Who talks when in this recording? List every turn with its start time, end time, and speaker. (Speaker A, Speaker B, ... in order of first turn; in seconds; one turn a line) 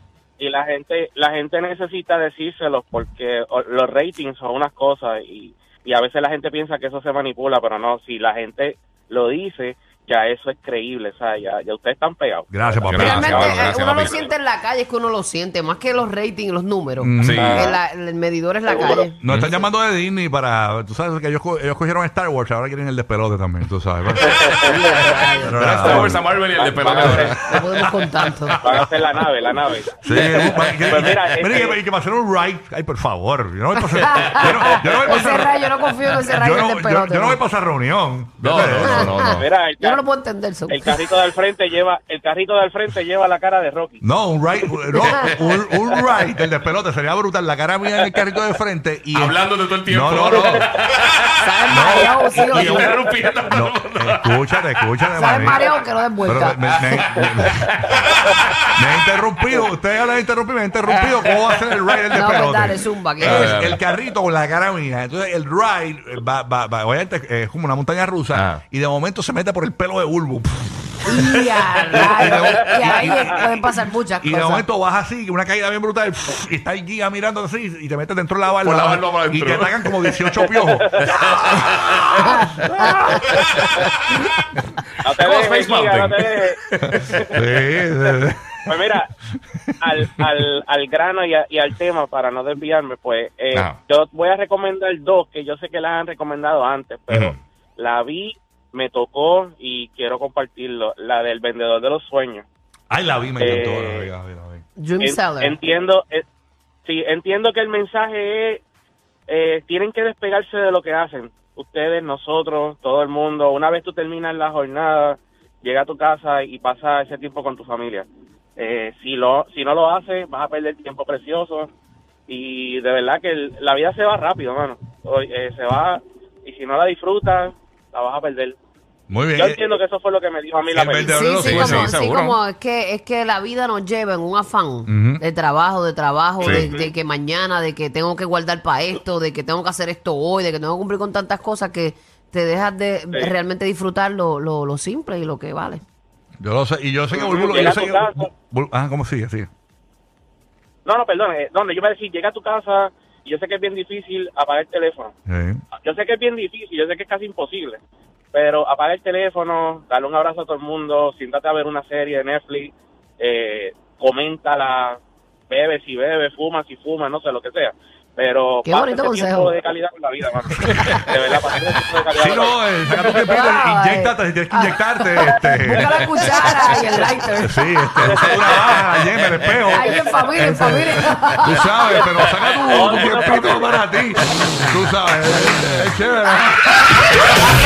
Speaker A: 0.4-14.3
Speaker B: 12.5-13.4
Speaker C: 12.9-14.2
Speaker D: 13.0-19.1
Speaker B: 17.0-17.7
Speaker C: 17.2-17.8
Speaker A: 17.4-17.6
Speaker A: 18.7-19.1
Speaker B: 19.2-24.4
Speaker C: 19.3-19.6
Speaker A: 24.2-24.7
Speaker D: 24.6-26.2
Speaker B: 25.4-26.2
Speaker C: 25.4-27.4
Speaker A: 26.4-27.5
Speaker B: 27.1-28.8
Speaker D: 27.3-28.6
Speaker A: 28.6-31.8
Speaker B: 30.0-39.2
Speaker C: 30.8-31.1
Speaker D: 33.9-37.4
Speaker C: 38.4-39.5
Speaker D: 38.8-41.0
Speaker A: 39.2-40.0
Speaker A: 40.7-44.0
Speaker B: 44.0-50.7
Speaker D: 44.9-45.4
Speaker C: 49.1-54.4
Speaker D: 51.4-53.0
Speaker B: 51.7-53.0
Speaker B: 53.5-55.6
Speaker D: 55.1-56.8
Speaker B: 56.2-57.9
Speaker C: 56.7-59.2
Speaker B: 58.7-81.2
Speaker D: 62.1-63.6
Speaker C: 63.2-63.9
Speaker C: 68.3-68.6
Speaker D: 71.0-74.7
Speaker C: 78.6-79.9
Speaker A: 80.5-81.6
Speaker C: 81.0-82.5
Speaker D: 82.1-83.6
Speaker B: 82.7-83.4
Speaker A: 85.0-88.1
Speaker C: 85.2-87.2
Speaker B: 87.3-88.8
Speaker A: 88.7-89.1
Speaker A: 89.8-102.4
Speaker C: 97.1-97.3
Speaker B: 102.9-104.6
Speaker A: 103.4-104.1
Speaker D: 104.8-105.6
Speaker A: 105.0-106.2
Speaker A: 106.8-108.6
Speaker A: 109.3-118.1
Speaker A: 118.6-121.7
Speaker A: 122.3-128.6
Speaker B: 129.1-129.6
Speaker A: 129.3-131.4
Speaker B: 130.7-131.9
Speaker D: 131.0-145.8
Speaker C: 131.4-132.4
Speaker B: 134.9-135.2
Speaker A: 136.4-136.9
Speaker C: 136.4-136.7
Speaker B: 146.4-149.5
Speaker A: 147.1-148.3
Speaker A: 150.8-155.1
Speaker B: 155.3-155.6
Speaker A: 155.8-157.8
Speaker A: 158.3-165.0
Speaker A: 165.5-173.3
Speaker D: 168.6-169.5
Speaker B: 172.2-175.9
Speaker D: 173.0-177.8
Speaker B: 177.4-186.8
Speaker A: 178.0-180.3
Speaker D: 179.7-181.7
Speaker A: 182.4-183.7